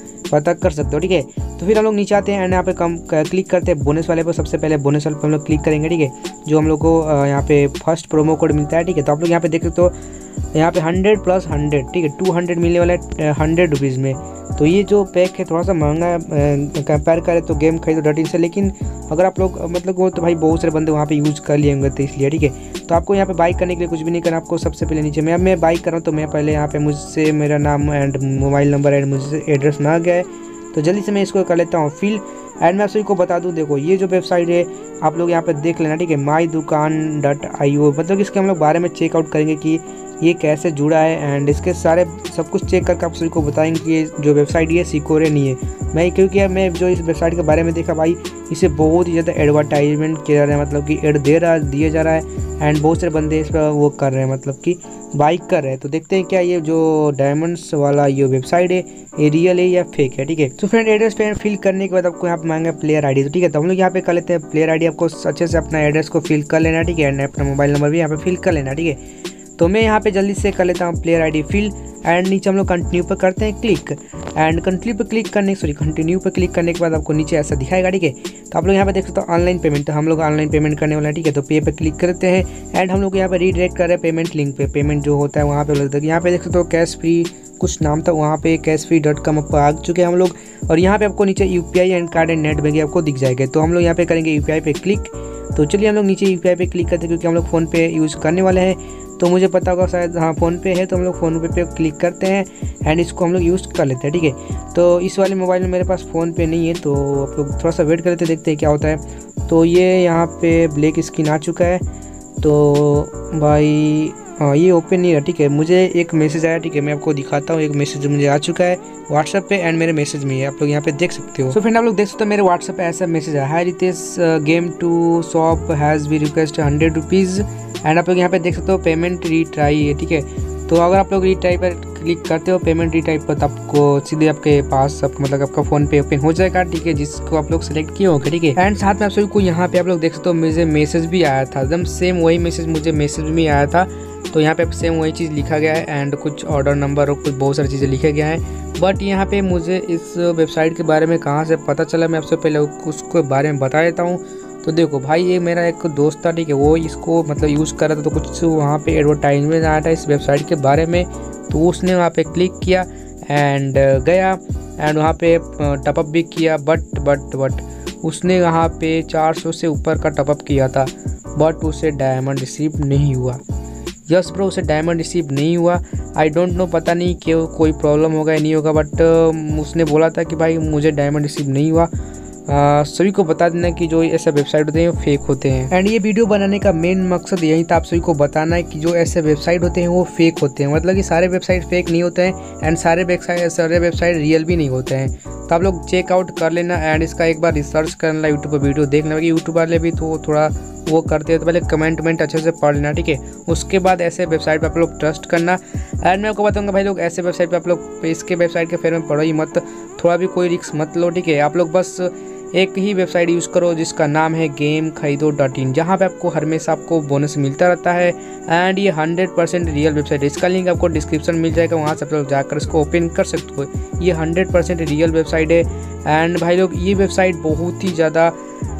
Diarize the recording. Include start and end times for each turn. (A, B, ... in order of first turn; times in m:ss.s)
0:00.3-0:09.9 A
0:10.5-1:09.0 A
1:09.6-1:51.8 A
1:52.4-2:53.4 A
2:54.1-3:01.9 A
3:02.5-3:48.3 A